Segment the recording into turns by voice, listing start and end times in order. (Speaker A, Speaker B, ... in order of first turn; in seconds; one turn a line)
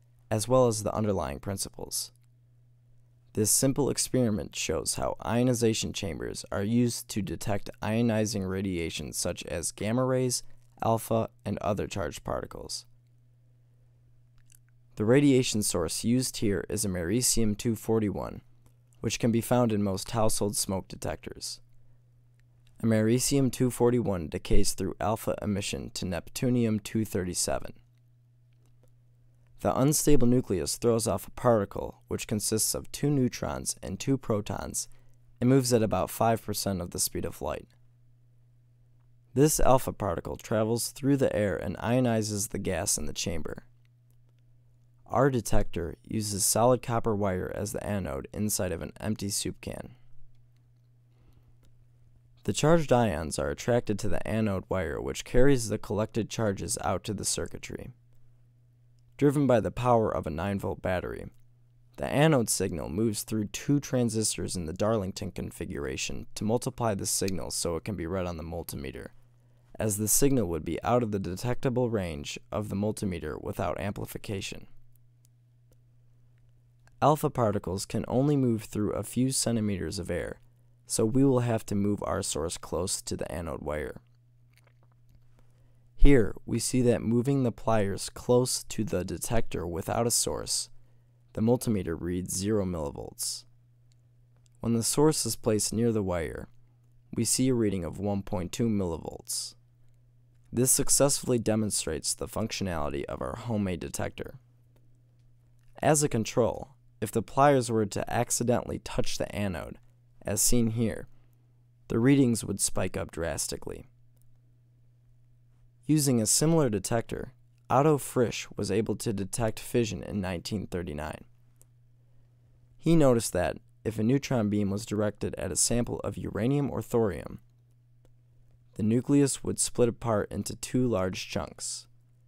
Speaker A: 0.3-2.1
Speaker A: 3.3-12.8
Speaker A: 14.9-18.4
Speaker A: 19.0-21.6
Speaker A: 22.8-27.8
Speaker A: 29.6-37.7
Speaker A: 39.3-43.7
Speaker A: 45.1-49.9
Speaker A: 52.4-57.9
Speaker A: 59.2-61.3
Speaker A: 62.0-69.1
Speaker A: 69.8-74.7
Speaker A: 77.0-84.0
Speaker A: 86.0-90.7
Speaker A: 91.3-93.5
Speaker A: 94.6-96.5
Speaker A: 97.1-99.5
Speaker A: 100.5-104.4
Speaker A: 105.8-111.1
Speaker A: 111.9-113.9
Speaker A: 115.8-121.2
Speaker A: 122.8-127.4
Speaker A: 128.7-131.9